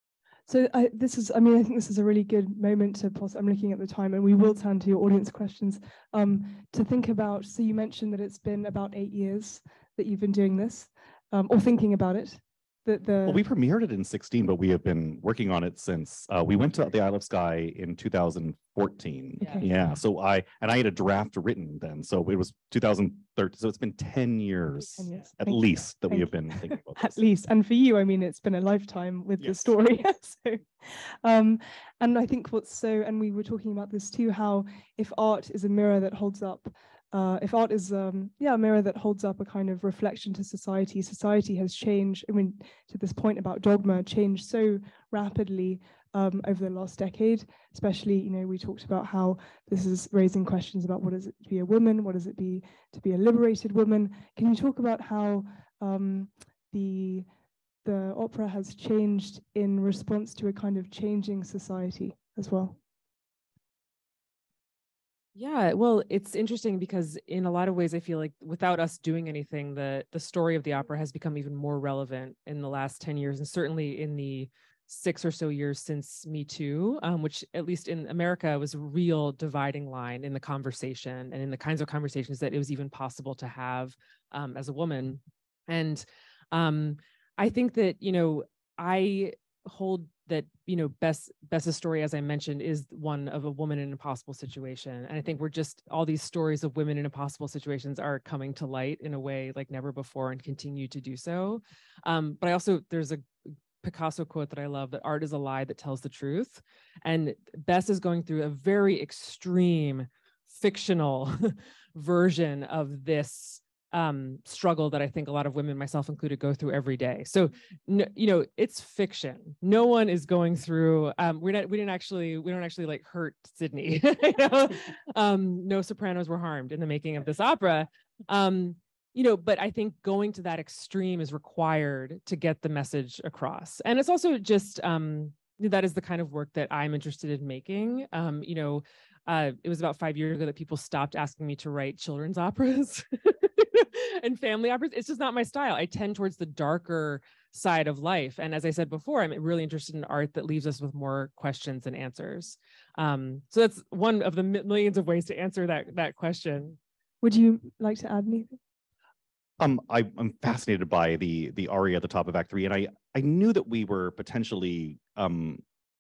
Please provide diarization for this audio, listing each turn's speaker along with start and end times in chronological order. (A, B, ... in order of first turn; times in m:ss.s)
0:00.5-0:13.4 A
0:13.3-0:27.2 B
0:19.4-0:19.7 A
0:25.0-0:57.3 A
0:29.4-0:29.7 B
0:57.8-1:02.8 A
1:05.4-1:43.3 C
1:43.8-2:36.8 C
2:37.2-2:38.6 A
2:39.6-2:45.6 B